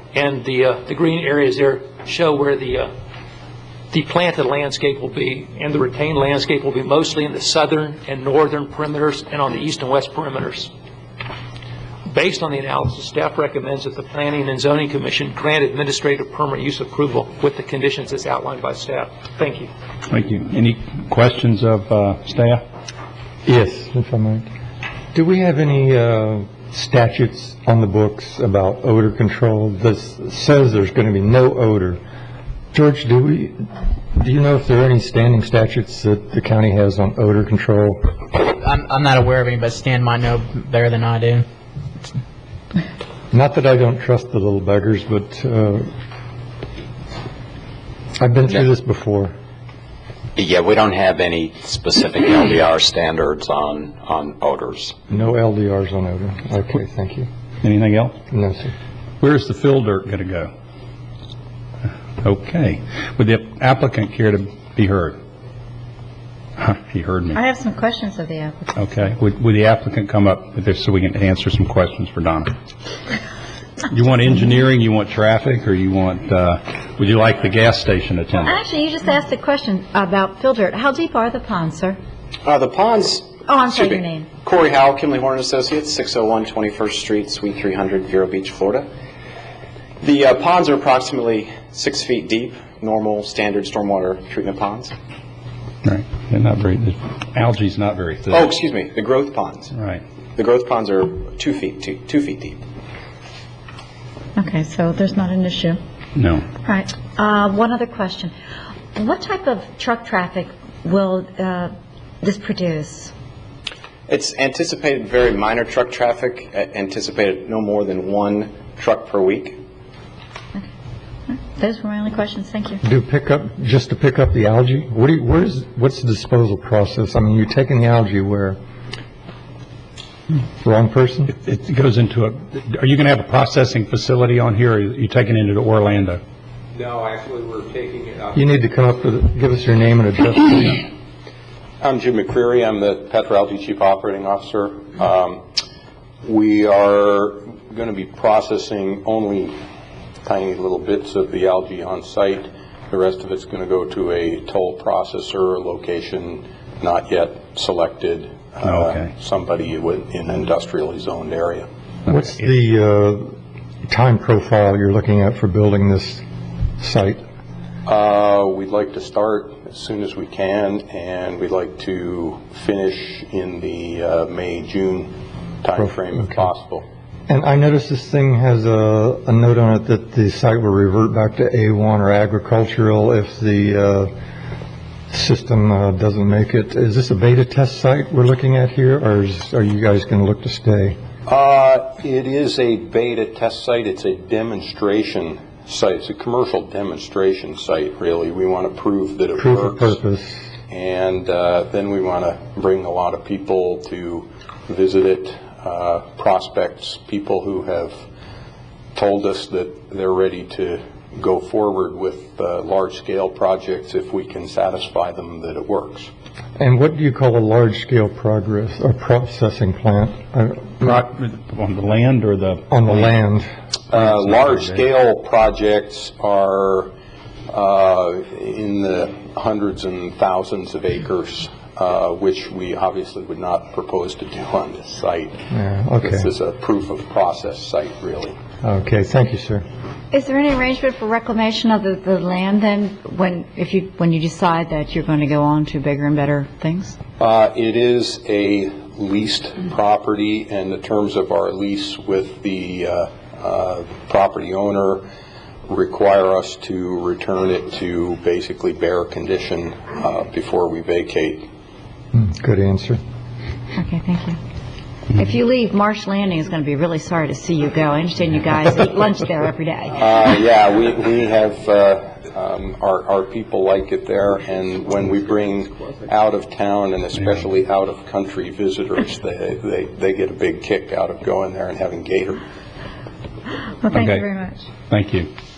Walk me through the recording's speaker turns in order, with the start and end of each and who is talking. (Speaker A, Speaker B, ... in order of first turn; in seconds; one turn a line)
Speaker A: 0.1-2.9
Speaker A: 3.9-10.7
Speaker A: 12.1-19.7
Speaker B: 20.1-22.6
Speaker C: 23.5-24.5
Speaker C: 25.1-32.0
Speaker C: 32.7-38.0
Speaker D: 38.5-41.5
Speaker C: 43.3-45.9
Speaker C: 48.2-49.3
Speaker E: 50.4-55.0
Speaker C: 55.1-57.3
Speaker B: 57.6-58.1
Speaker C: 58.3-58.7
Speaker B: 59.2-60.5
Speaker B: 62.2-65.2
Speaker B: 66.6-67.4
Speaker F: 67.3-68.9
Speaker B: 68.8-72.5
Speaker B: 73.9-78.6
Speaker F: 78.4-82.0
Speaker G: 82.5-88.9
Speaker F: 83.5-84.3
Speaker G: 90.0-94.9
Speaker B: 95.8-98.5
Speaker G: 98.3-99.7
Speaker B: 99.7-100.0
Speaker G: 100.4-102.6
Speaker F: 104.4-105.8
Speaker B: 106.2-106.4
Speaker F: 106.6-108.3
Speaker F: 109.0-113.1
Speaker G: 114.1-119.6
Speaker F: 121.3-122.8
Speaker C: 122.8-128.6
Speaker C: 130.6-131.3
Speaker B: 131.3-136.2
Speaker H: 136.8-138.3
Speaker C: 138.3-140.9
Speaker H: 141.8-145.4
Speaker H: 146.2-149.6
Speaker H: 150.2-161.7
Speaker B: 158.6-159.1
Speaker C: 162.1-163.4
Speaker C: 163.9-166.2
Speaker C: 166.8-167.2
Speaker H: 167.9-176.8
Speaker C: 175.8-176.5
Speaker C: 177.3-184.1
Speaker C: 185.1-191.0
Speaker H: 191.3-200.0
Speaker C: 199.4-200.5
Speaker H: 200.7-207.9
Speaker H: 208.9-216.1
Speaker C: 216.6-221.0
Speaker B: 220.8-223.1
Speaker C: 222.7-223.5
Speaker H: 223.9-226.9
Speaker B: 224.0-224.6
Speaker H: 227.5-235.4
Speaker C: 235.5-236.3
Speaker H: 236.0-238.4
Speaker C: 238.6-239.6
Speaker F: 240.1-247.0
Speaker H: 247.2-255.0
Speaker H: 255.7-261.5
Speaker C: 262.1-263.0
Speaker F: 263.8-264.4
Speaker F: 265.1-270.0
Speaker H: 269.9-282.4
Speaker F: 283.8-284.6
Speaker B: 283.9-284.3
Speaker B: 284.9-285.3